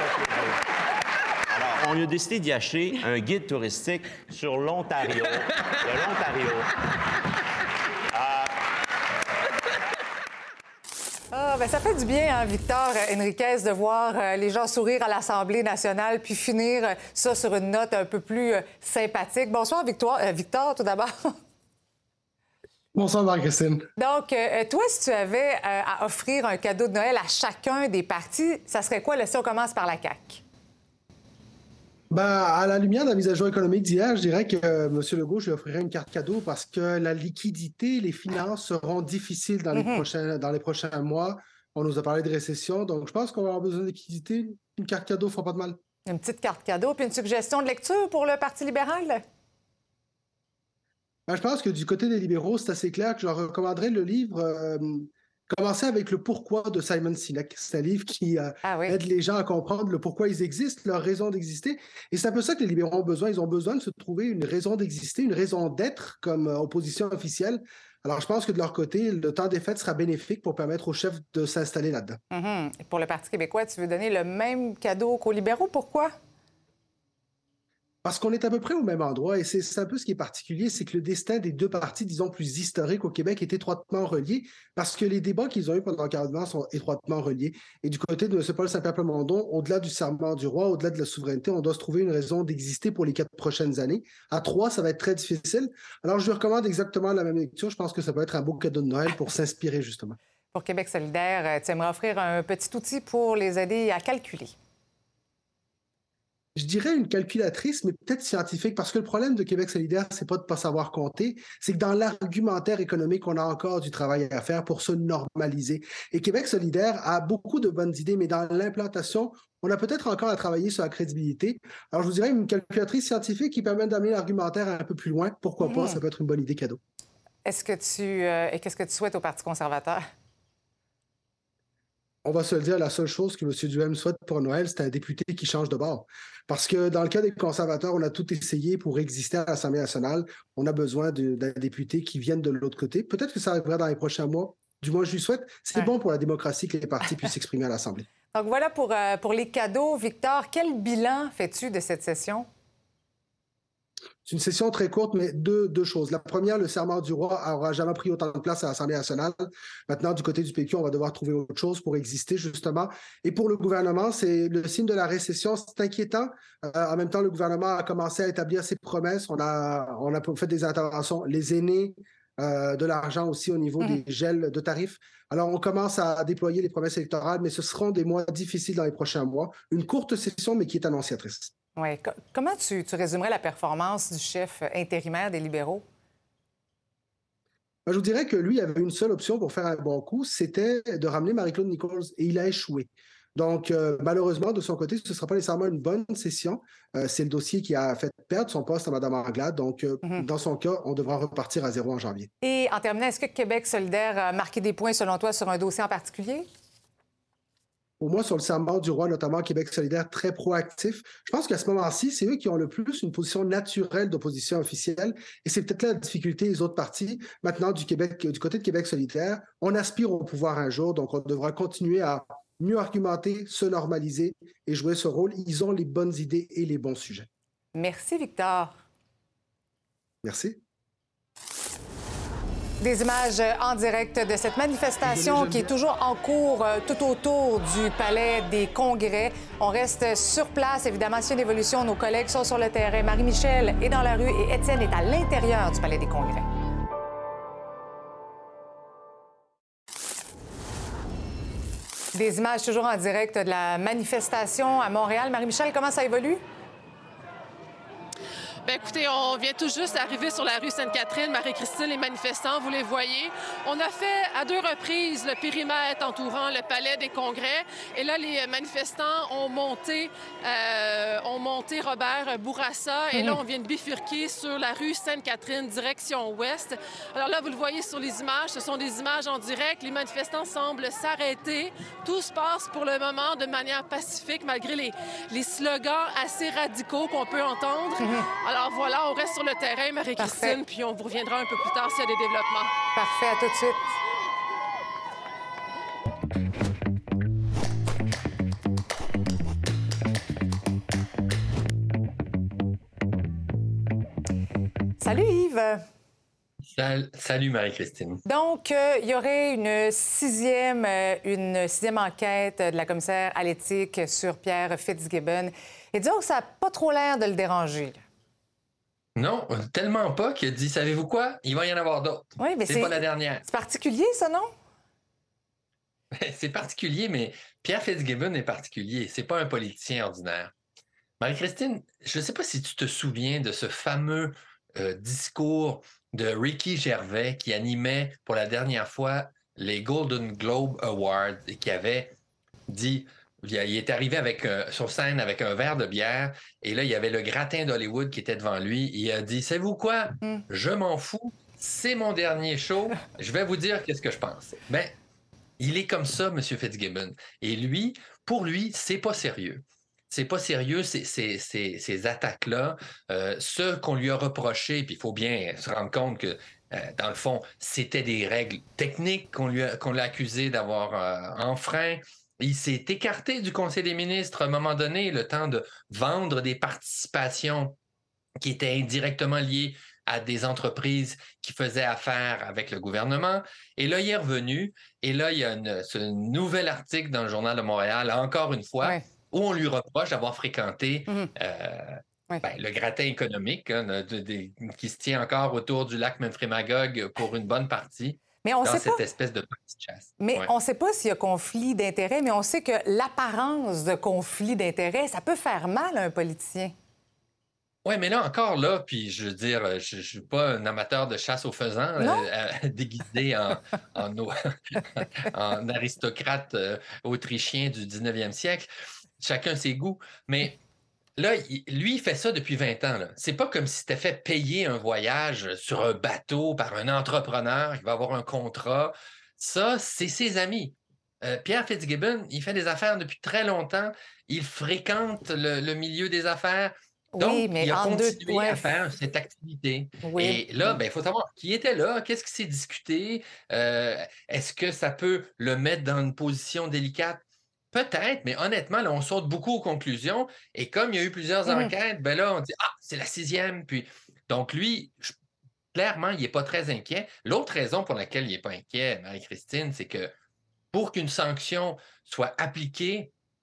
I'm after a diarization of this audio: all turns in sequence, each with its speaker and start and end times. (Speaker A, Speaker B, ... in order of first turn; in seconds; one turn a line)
Speaker A: 1.5-6.7
Speaker A: 8.1-8.5
Speaker B: 11.3-21.1
Speaker C: 22.9-23.9
Speaker B: 24.0-30.4
Speaker C: 32.1-45.8
Speaker B: 39.8-40.0
Speaker B: 46.1-49.2
Speaker C: 51.3-72.2
Speaker B: 58.6-59.0
Speaker B: 72.3-76.1
Speaker C: 78.0-100.2
Speaker B: 100.5-104.5
Speaker C: 106.6-126.8
Speaker B: 125.6-126.0
Speaker B: 127.4-130.1
Speaker C: 132.2-148.1
Speaker B: 148.3-152.5
Speaker C: 154.2-181.5
Speaker B: 181.8-185.8
Speaker C: 187.9-202.3
Speaker B: 202.4-206.4
Speaker C: 208.0-227.3
Speaker B: 227.8-228.8
Speaker C: 230.2-230.6
Speaker B: 232.8-246.4
Speaker C: 235.0-235.7
Speaker B: 252.1-256.4
Speaker D: 258.6-292.7
Speaker B: 290.2-290.6
Speaker B: 292.9-293.9
Speaker B: 305.0-305.8
Speaker E: 306.7-308.2
Speaker B: 308.3-318.0
Speaker E: 319.1-323.4
Speaker B: 322.4-324.5
Speaker E: 326.2-330.5
Speaker E: 331.2-342.1
Speaker E: 342.7-354.9
Speaker E: 355.6-377.8
Speaker E: 378.4-400.5
Speaker B: 398.4-399.0
Speaker B: 400.2-406.7
Speaker E: 407.9-418.7
Speaker B: 412.0-412.3
Speaker E: 419.2-420.6
Speaker E: 421.2-447.2
Speaker B: 437.1-438.8
Speaker B: 440.0-440.8
Speaker E: 447.7-455.1
Speaker B: 451.4-451.7
Speaker E: 455.7-460.1
Speaker E: 460.7-463.1